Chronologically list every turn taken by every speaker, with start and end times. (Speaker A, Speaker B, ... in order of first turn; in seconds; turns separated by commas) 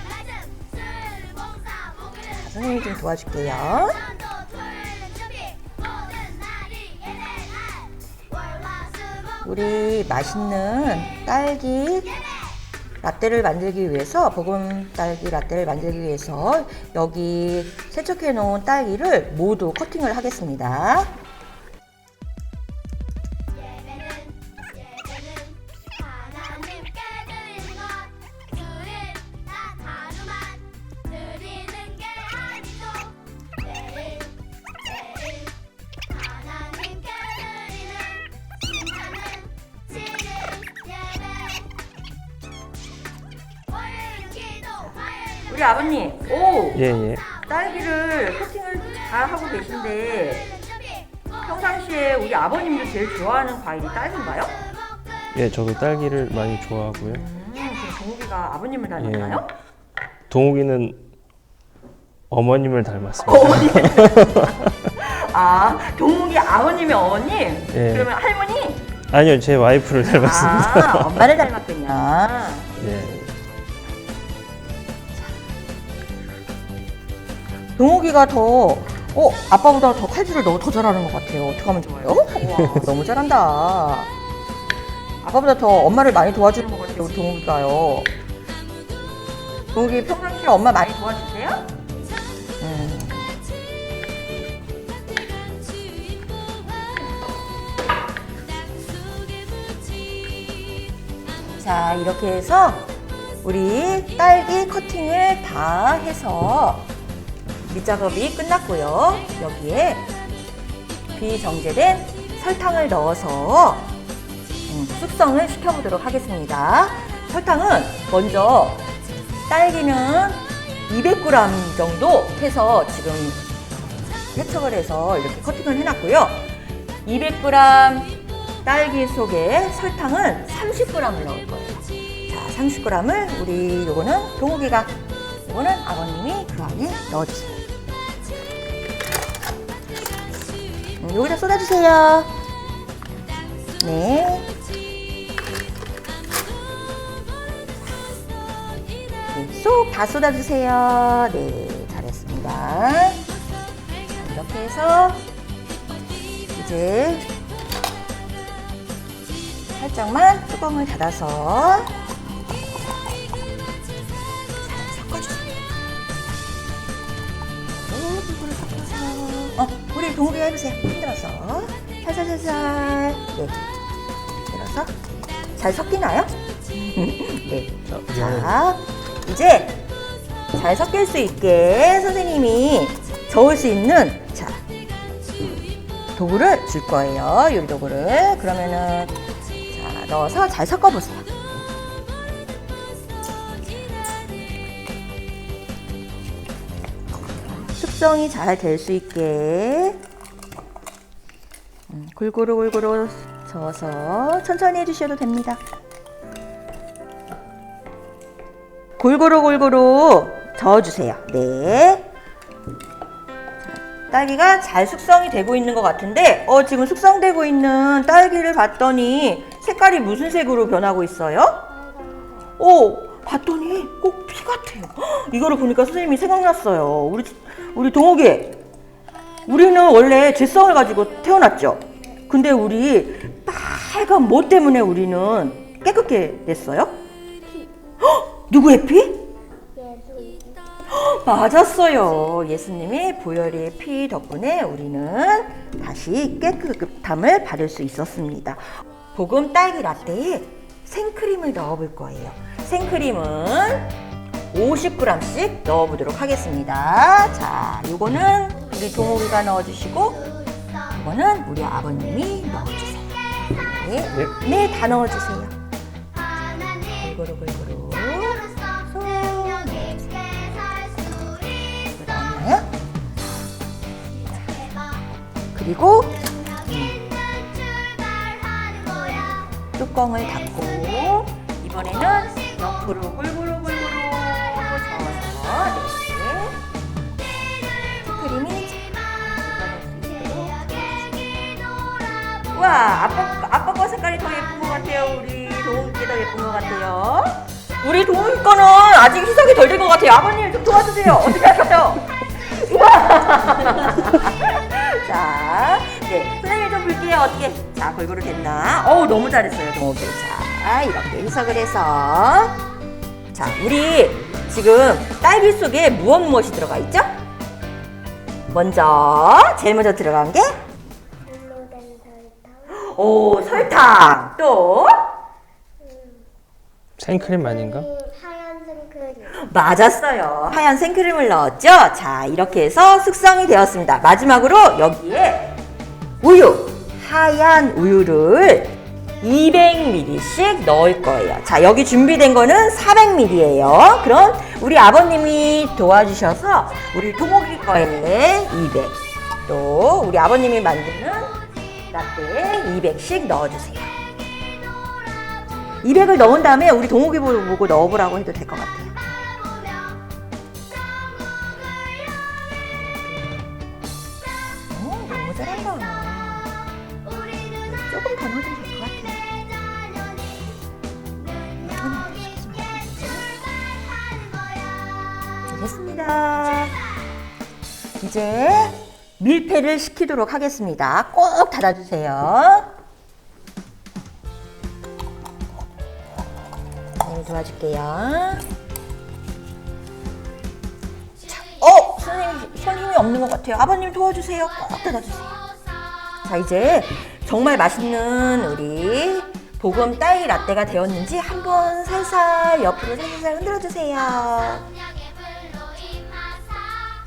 Speaker A: 2.2-4.1, Speaker A: 9.4-12.2, Speaker A: 13.0-21.1, Speaker A: 45.5-50.5, Speaker B: 46.8-47.3, Speaker A: 51.4-54.7, Speaker B: 55.3-57.2, Speaker A: 57.0-59.5, Speaker B: 59.0-59.4, Speaker B: 60.3-61.0, Speaker B: 62.3-64.7, Speaker A: 63.2-68.8, Speaker B: 67.7-68.1, Speaker B: 69.1-71.2, Speaker A: 70.0-72.7, Speaker B: 72.8-73.3, Speaker A: 77.8-84.1, Speaker A: 85.2-88.1, Speaker A: 89.7-91.7, Speaker A: 92.6-93.4, Speaker A: 101.6-102.9, Speaker A: 103.4-106.9, Speaker A: 107.7-110.1, Speaker A: 111.2-113.9, Speaker A: 114.7-118.9, Speaker A: 119.5-123.4, Speaker A: 124.3-126.5, Speaker A: 127.0-128.1, Speaker A: 128.7-134.9, Speaker A: 135.5-137.6, Speaker A: 141.0-142.3, Speaker A: 143.8-144.5, Speaker A: 149.3-153.2, Speaker A: 154.1-155.2, Speaker A: 156.6-157.3, Speaker A: 159.8-161.9, Speaker A: 164.6-165.6, Speaker A: 167.7-173.6, Speaker A: 174.5-174.9, Speaker A: 175.6-179.8, Speaker B: 177.9-178.5, Speaker A: 180.5-184.6, Speaker A: 186.2-189.2, Speaker A: 189.7-191.3, Speaker A: 197.8-200.0, Speaker A: 201.9-205.6, Speaker A: 209.0-212.1, Speaker A: 214.1-221.6, Speaker C: 221.7-222.5, Speaker A: 222.6-228.6, Speaker A: 229.5-236.9, Speaker C: 237.5-237.7, Speaker A: 238.0-239.3, Speaker C: 239.7-240.6, Speaker A: 240.9-248.6, Speaker A: 249.1-253.9, Speaker A: 254.5-260.3, Speaker A: 260.9-265.5, Speaker A: 266.6-271.2, Speaker A: 271.8-272.7, Speaker A: 275.6-277.1, Speaker C: 278.7-279.6, Speaker A: 279.8-286.6, Speaker A: 288.0-290.9, Speaker A: 292.5-312.6, Speaker A: 313.3-317.1, Speaker A: 318.5-320.5, Speaker C: 321.3-322.9, Speaker A: 322.7-325.0, Speaker C: 325.8-326.3, Speaker B: 327.0-327.9, Speaker C: 327.1-329.4, Speaker A: 329.3-335.6, Speaker A: 336.2-351.4, Speaker A: 351.9-353.9, Speaker A: 355.8-359.1, Speaker A: 362.7-363.6, Speaker A: 364.7-366.6, Speaker A: 367.6-369.3, Speaker A: 371.5-373.3, Speaker A: 375.5-376.8, Speaker A: 378.0-382.7, Speaker A: 387.0-388.5, Speaker A: 391.3-395.4, Speaker A: 396.2-404.7